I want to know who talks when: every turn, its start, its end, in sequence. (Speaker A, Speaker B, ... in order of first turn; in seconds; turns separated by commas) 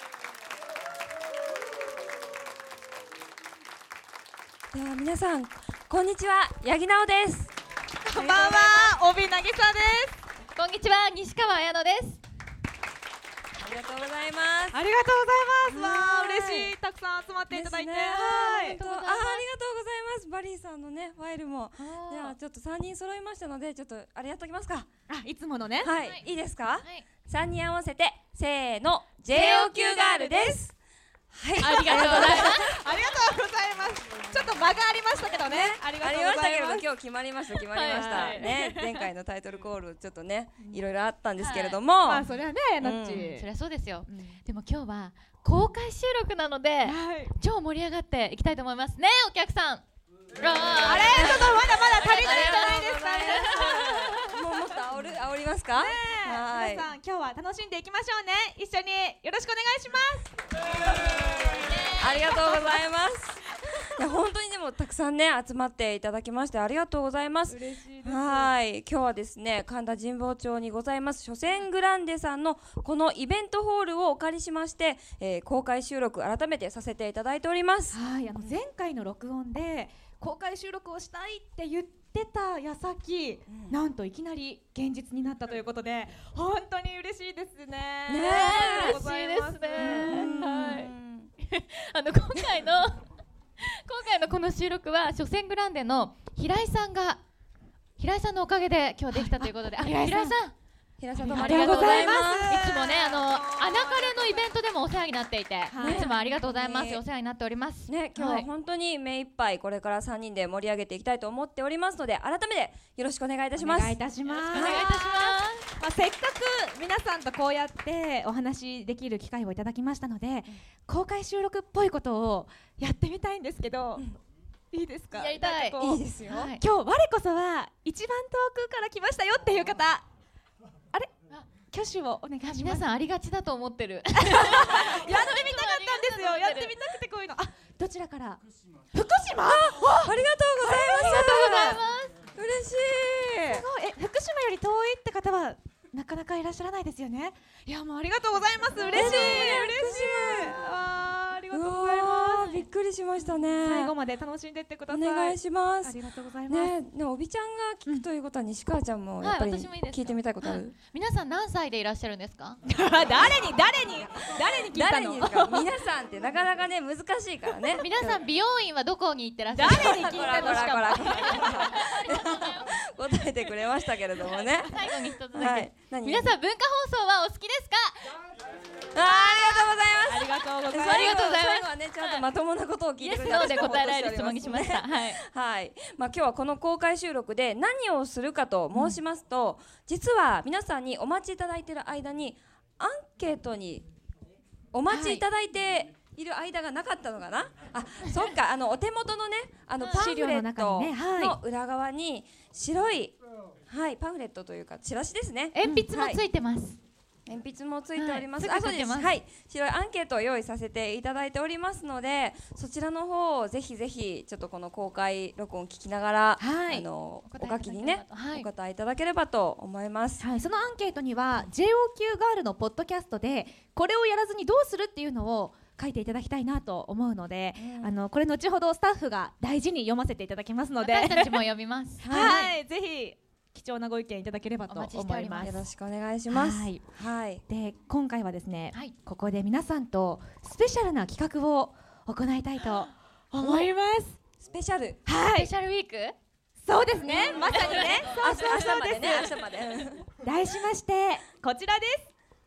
Speaker A: 4.7-7.5, Speaker B: 8.0-10.2, Speaker C: 8.2-9.0, Speaker C: 10.5-12.2, Speaker A: 13.6-14.8, Speaker B: 14.7-18.8, Speaker A: 15.7-16.7, Speaker A: 17.5-24.9, Speaker C: 18.7-19.4, Speaker C: 21.8-22.4, Speaker B: 25.1-25.9, Speaker A: 25.8-30.8, Speaker C: 25.9-27.1, Speaker C: 29.3-30.4, Speaker B: 29.5-30.5, Speaker A: 31.3-32.8, Speaker C: 31.6-32.8, Speaker B: 31.6-36.8, Speaker A: 35.3-42.3, Speaker C: 37.6-39.0, Speaker B: 37.8-38.7, Speaker C: 41.4-41.8, Speaker B: 42.0-43.5, Speaker A: 42.8-43.3, Speaker C: 43.3-49.8, Speaker B: 44.1-44.4, Speaker B: 46.8-47.3, Speaker C: 50.4-54.5, Speaker B: 50.8-54.0, Speaker A: 51.0-56.9, Speaker B: 55.8-60.3, Speaker C: 61.4-62.8, Speaker A: 62.0-78.6, Speaker B: 67.5-68.5, Speaker B: 77.9-90.5, Speaker A: 83.5-83.8, Speaker A: 88.1-89.0, Speaker C: 88.2-93.0, Speaker A: 89.8-91.3, Speaker C: 93.6-97.2, Speaker C: 98.0-100.5, Speaker B: 99.1-100.3, Speaker A: 101.0-102.6, Speaker B: 101.2-104.5, Speaker C: 101.3-108.5, Speaker B: 105.7-106.2, Speaker A: 105.8-107.0, Speaker A: 107.9-114.9, Speaker B: 113.5-124.1, Speaker C: 114.3-115.7, Speaker B: 124.7-130.1, Speaker C: 125.1-126.6, Speaker A: 125.8-126.5, Speaker B: 131.7-132.8, Speaker C: 132.4-136.9, Speaker B: 134.2-138.4, Speaker B: 138.9-141.4, Speaker A: 139.5-143.7, Speaker C: 140.9-142.2, Speaker B: 143.4-152.6, Speaker C: 148.8-149.7, Speaker A: 148.9-150.7, Speaker A: 151.5-153.9, Speaker B: 153.6-156.8, Speaker A: 154.9-160.7, Speaker C: 159.2-162.6, Speaker B: 162.6-165.7, Speaker A: 164.3-168.2, Speaker C: 167.8-172.6, Speaker B: 169.5-171.5, Speaker A: 169.6-176.3, Speaker C: 174.3-178.2, Speaker A: 178.9-193.8, Speaker C: 179.3-179.7, Speaker B: 180.1-181.2, Speaker C: 180.7-182.2, Speaker C: 183.0-185.2, Speaker A: 194.7-203.2, Speaker B: 194.9-195.2, Speaker C: 199.8-200.1, Speaker B: 199.9-201.4, Speaker A: 203.7-206.2, Speaker C: 205.5-206.8, Speaker A: 207.2-220.2, Speaker C: 207.9-209.2, Speaker B: 216.4-216.9, Speaker C: 217.2-218.5, Speaker B: 220.2-231.4, Speaker A: 227.6-228.0, Speaker C: 230.8-232.5, Speaker B: 232.0-235.6, Speaker A: 232.1-232.5, Speaker C: 234.7-235.7, Speaker A: 235.4-237.4, Speaker B: 236.3-236.8, Speaker B: 237.5-244.2, Speaker C: 243.4-243.7, Speaker A: 244.4-245.0, Speaker B: 245.1-245.5, Speaker C: 245.3-246.1, Speaker B: 246.6-249.4, Speaker C: 247.0-248.8, Speaker A: 247.1-250.1, Speaker B: 250.2-252.1